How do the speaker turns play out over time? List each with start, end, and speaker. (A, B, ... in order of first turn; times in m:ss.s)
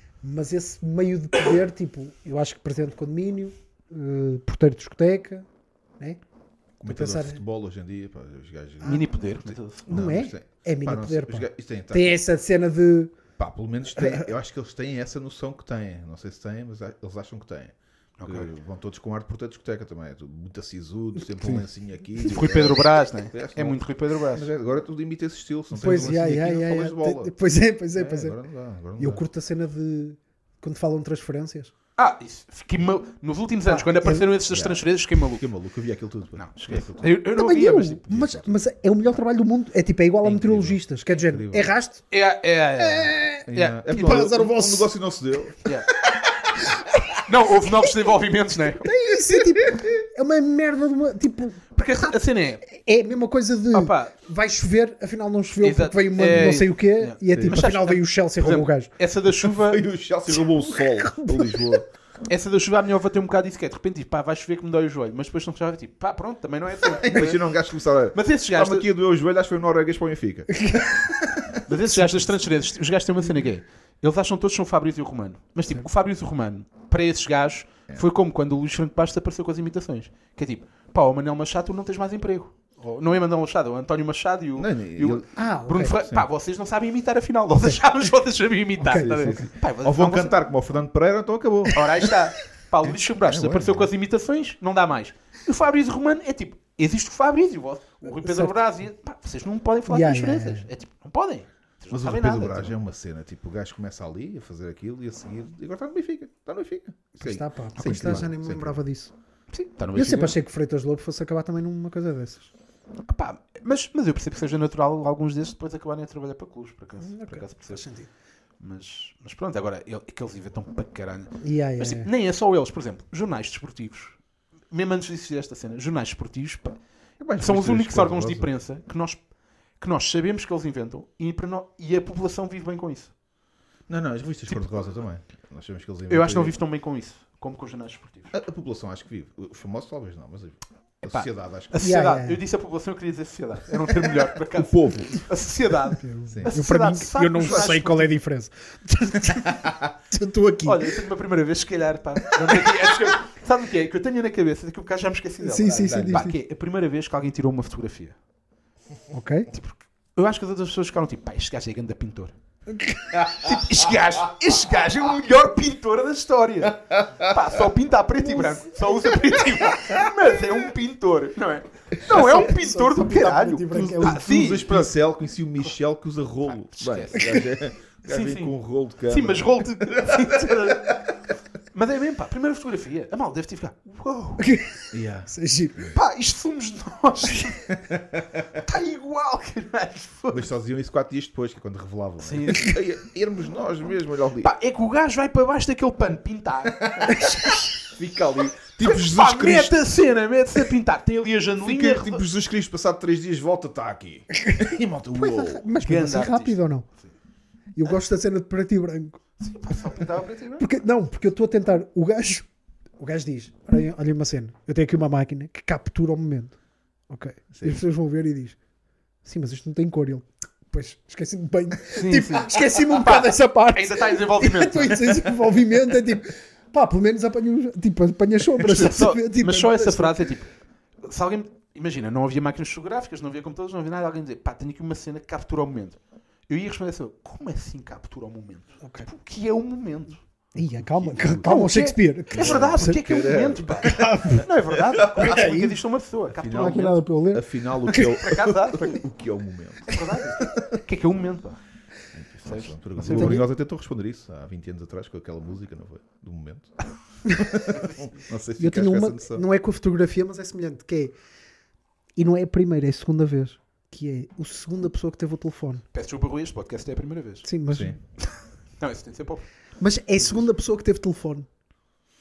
0:00.2-0:05.5 A
0:06.8-0:09.0 B
0:06.8-0:07.4 A
0:08.8-0:09.9 C
0:09.9-0:13.2 A
0:09.9-0:12.2 B
0:13.4-0:23.8 B
0:18.2-0:18.5 C
0:22.2-0:24.5 C
0:24.3-0:27.3 B
0:25.7-0:28.4 A
0:28.0-0:29.2 B
0:29.0-0:31.7 A
0:32.0-0:35.5 C
0:33.7-0:34.3 A
0:34.5-0:37.2 B
0:36.4-0:38.4 C
0:37.3-0:42.0 A
0:40.2-0:41.7 B
0:42.1-0:44.2 C
0:42.8-0:44.9 A
0:43.5-0:45.7 B
0:45.6-0:45.9 C
0:47.2-0:48.9 C
0:48.8-0:51.7 A
0:49.6-0:49.9 B
0:51.7-0:52.7 C
0:52.7-0:58.9 A
0:53.7-0:54.1 C
0:55.6-0:59.8 C
0:56.3-0:56.6 B
0:57.3-0:57.6 B
0:59.4-1:01.9 B
1:00.7-1:01.8 A
1:02.3-1:07.6 C
1:06.8-1:12.0 B
1:08.1-1:08.8 C
1:10.5-1:10.9 A
1:11.7-1:30.4 C
1:24.6-1:25.3 B
1:25.4-1:25.9 A
1:28.8-1:29.5 A
1:28.9-1:32.3 B
1:31.7-1:42.7 C
1:32.8-1:33.9 B
1:38.0-1:38.5 A
1:39.9-1:40.7 A
1:41.9-1:48.8 B
1:47.2-1:49.1 A
1:47.8-1:48.3 C
1:49.5-1:50.4 C
1:49.9-1:52.5 A
1:53.1-1:57.9 C
1:57.0-1:58.1 A
1:58.6-2:04.2 C
2:01.4-2:02.1 A
2:04.7-2:06.8 C
2:07.2-2:08.5 B
2:07.4-2:09.2 C
2:09.8-2:13.1 C
2:13.9-2:16.5 B
2:16.1-2:18.3 C
2:18.3-2:21.9 B
2:21.1-2:28.2 C
2:21.8-2:22.4 A
2:24.6-2:25.2 B
2:26.0-2:31.0 A
2:26.3-2:26.6 B
2:27.4-2:27.7 B
2:29.3-2:29.8 B
2:30.6-2:38.2 C
2:32.5-2:32.8 A
2:35.4-2:36.4 A
2:35.7-2:36.3 B
2:39.1-2:39.5 A
2:39.5-2:42.3 C
2:42.7-2:43.1 A
2:43.2-2:54.9 C
2:52.0-2:54.3 A
2:53.7-3:01.0 B
2:56.6-2:57.5 C
2:58.1-2:58.5 C
2:59.1-3:01.1 C
3:01.7-3:04.5 C
3:04.4-3:05.9 A
3:04.9-3:06.0 B
3:05.9-3:07.8 C
3:07.7-3:08.3 B
3:08.6-3:10.5 C
3:10.3-3:14.5 B
3:12.2-3:12.8 C
3:14.4-3:17.7 C
3:16.8-3:19.8 B
3:17.1-3:17.7 A
3:18.8-3:22.2 C
3:21.6-3:25.6 B
3:24.3-3:26.9 A
3:25.8-3:27.1 C
3:27.8-3:29.2 A
3:29.4-3:30.7 C
3:30.6-3:32.5 A
3:33.0-3:36.6 A
3:37.1-3:38.6 A
3:37.5-3:37.8 B
3:39.2-3:50.3 A
3:42.0-3:45.1 C
3:48.5-3:50.5 C
3:51.0-4:00.2 C
3:58.8-3:59.1 A
4:00.6-4:03.0 A
4:00.6-4:01.5 B
4:01.2-4:07.0 C
4:02.3-4:04.0 B
4:03.8-4:04.4 A
4:04.7-4:05.2 B
4:05.2-4:05.8 A
4:06.4-4:10.8 B
4:06.5-4:08.2 A
4:08.0-4:09.0 C
4:09.9-4:11.6 C
4:12.2-4:16.8 B
4:12.4-4:13.4 C
4:13.0-4:13.5 A
4:17.3-4:17.5 A
4:17.3-4:19.4 B
4:18.6-4:21.2 A
4:22.2-4:25.8 A
4:25.9-4:27.5 C
4:27.4-4:28.0 A
4:27.7-4:28.0 B
4:28.2-4:29.5 C
4:29.8-4:31.5 A